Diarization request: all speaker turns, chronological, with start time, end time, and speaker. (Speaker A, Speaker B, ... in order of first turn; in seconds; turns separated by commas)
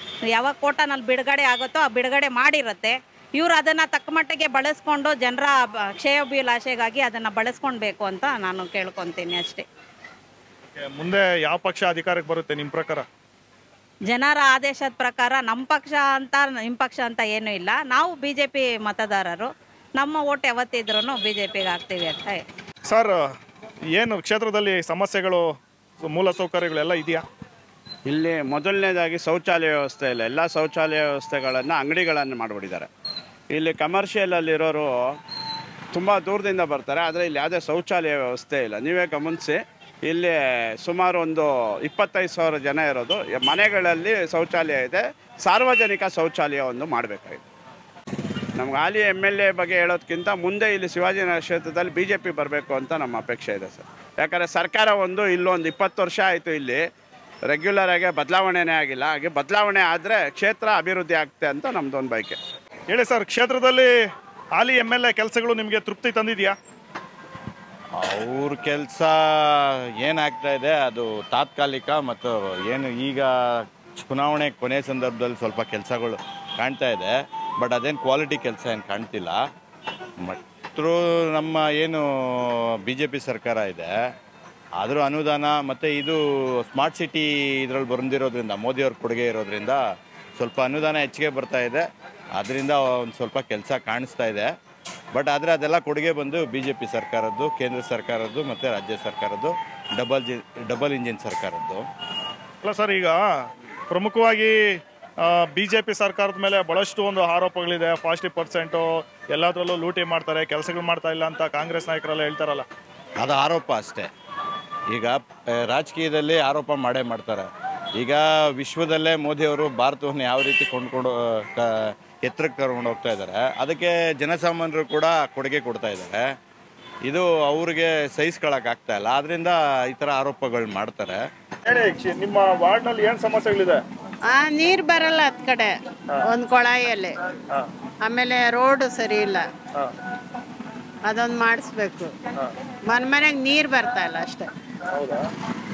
Speaker A: 0.3-9.6, Speaker B: 10.7-13.1, Speaker A: 14.1-22.4, Speaker B: 22.9-23.3, Speaker B: 23.9-27.2, Speaker C: 28.1-32.9, Speaker C: 33.5-35.0, Speaker C: 35.9-47.4, Speaker C: 48.5-56.8, Speaker C: 57.5-62.4, Speaker B: 62.9-63.9, Speaker B: 64.5-66.5, Speaker D: 68.0-79.4, Speaker D: 80.2-83.9, Speaker D: 84.8-86.2, Speaker D: 86.7-89.8, Speaker D: 90.4-91.8, Speaker D: 92.3-94.5, Speaker D: 95.1-101.8, Speaker B: 102.6-103.2, Speaker B: 103.9-112.7, Speaker D: 113.2-114.1, Speaker D: 114.9-126.2, Speaker D: 127.0-131.2, Speaker B: 131.7-133.8, Speaker E: 134.3-135.7, Speaker E: 136.2-137.1, Speaker E: 138.1-139.4, Speaker E: 141.1-142.2, Speaker E: 142.9-144.5, Speaker B: 144.9-145.3